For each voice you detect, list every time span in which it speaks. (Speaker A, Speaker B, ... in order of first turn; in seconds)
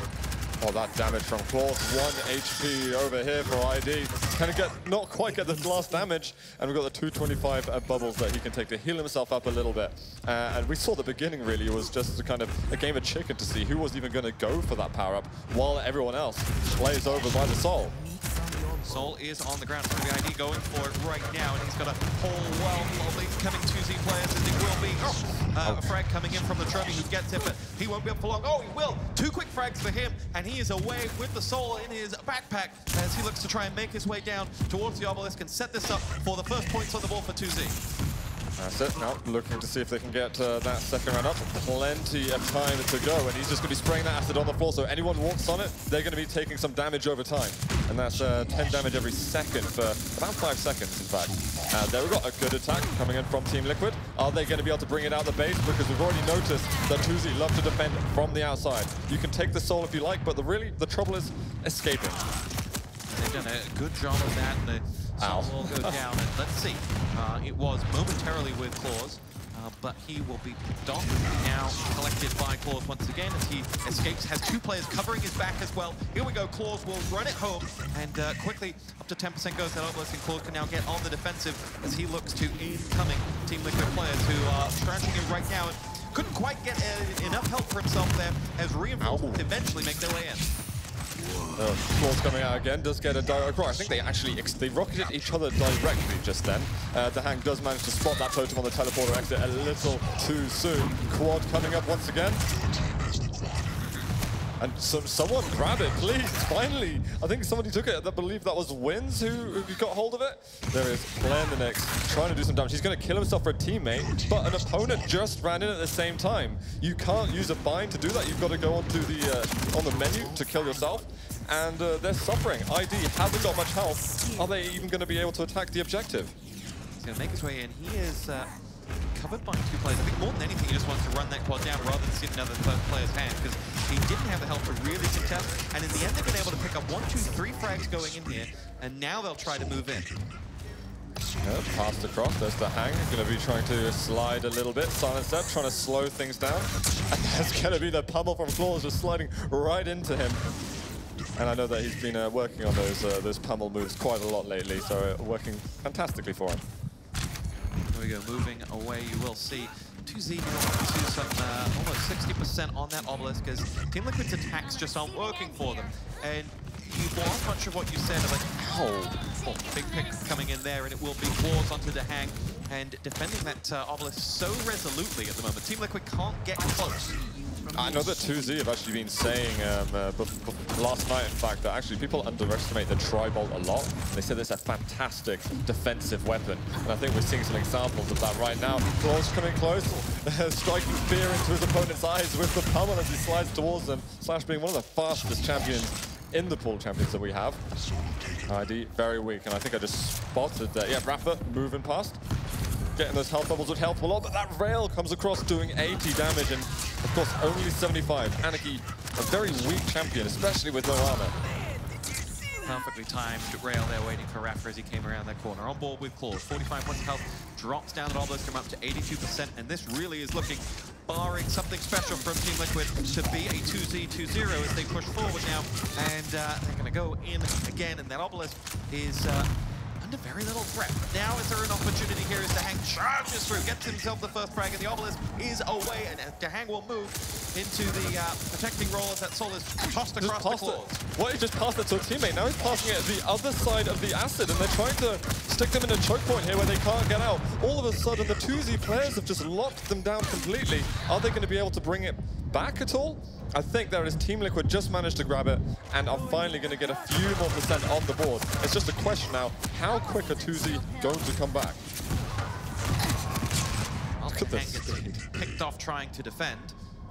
Speaker A: 0.6-18.0, 25.6-25.9, 38.6-62.3, 65.2-66.0, 89.0-89.5, 91.6-102.5, 104.6-126.3, 141.4-150.4, 151.4-156.6, 177.7-197.6, 198.5-202.2, 203.0-211.3, 240.2-261.8, 264.3-265.2
Speaker B: 18.8-37.8, 63.1-90.5, 127.0-128.5, 129.1-140.1, 157.9-177.2, 212.7-229.5, 230.0-241.0, 264.2-266.7